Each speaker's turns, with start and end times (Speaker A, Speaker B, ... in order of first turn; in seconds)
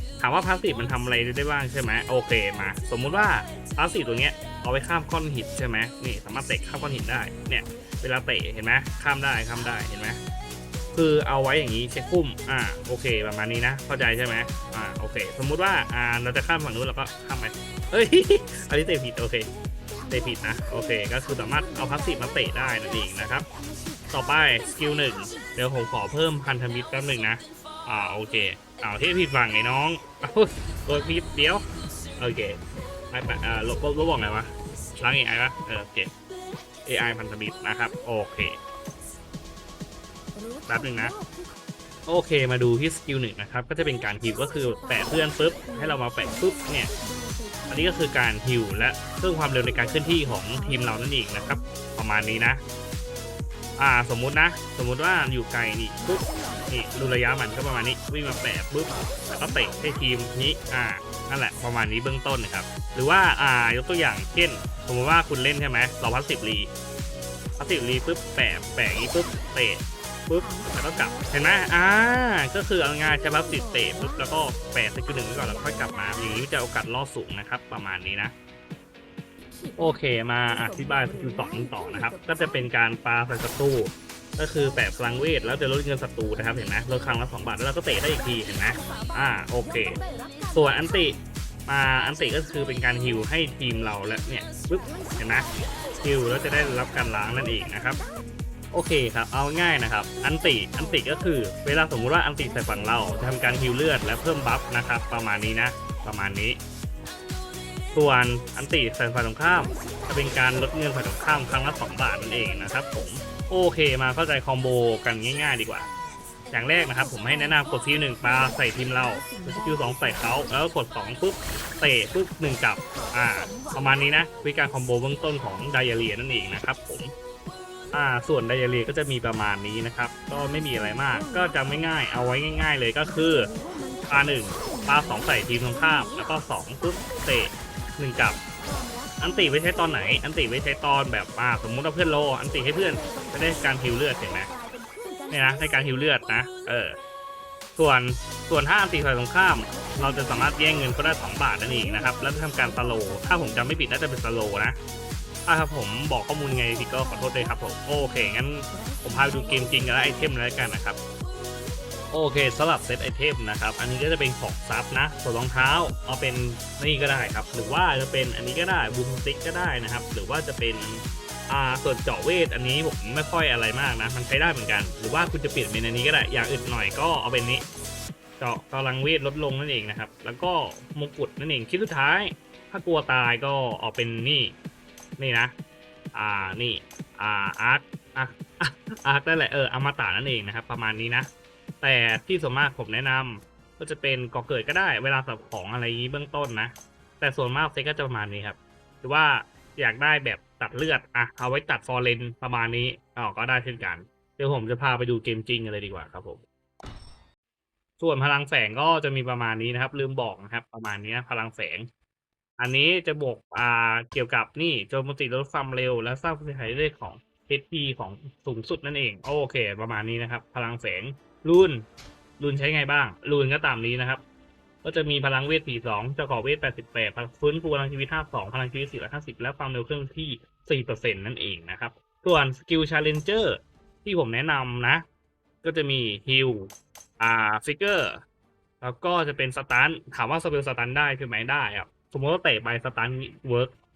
Speaker A: 0.2-10.2, 10.9-19.5, 20.1-23.5, 24.1-31.6, 32.2-32.6, 33.1-36.1, 36.8-38.6, 40.7-41.1, 42.1-46.9, 47.7-52.6, 53.8-66.7, 67.6-78.3, 79.8-90.0, 90.5-95.5, 96.0-98.0, 98.7-106.6, 107.9-115.9, 116.5-127.1, 127.9-133.5, 134.1-138.4, 139.2-144.5, 145.3-147.0, 147.8-154.8, 155.4-161.0, 162.1-177.6, 178.4-184.5, 185.2-185.5, 186.1-191.3, 191.8-206.4, 208.0-211.9, 212.6-221.8, 222.4-224.2, 224.8-235.0, 235.6-238.2, 238.8-243.7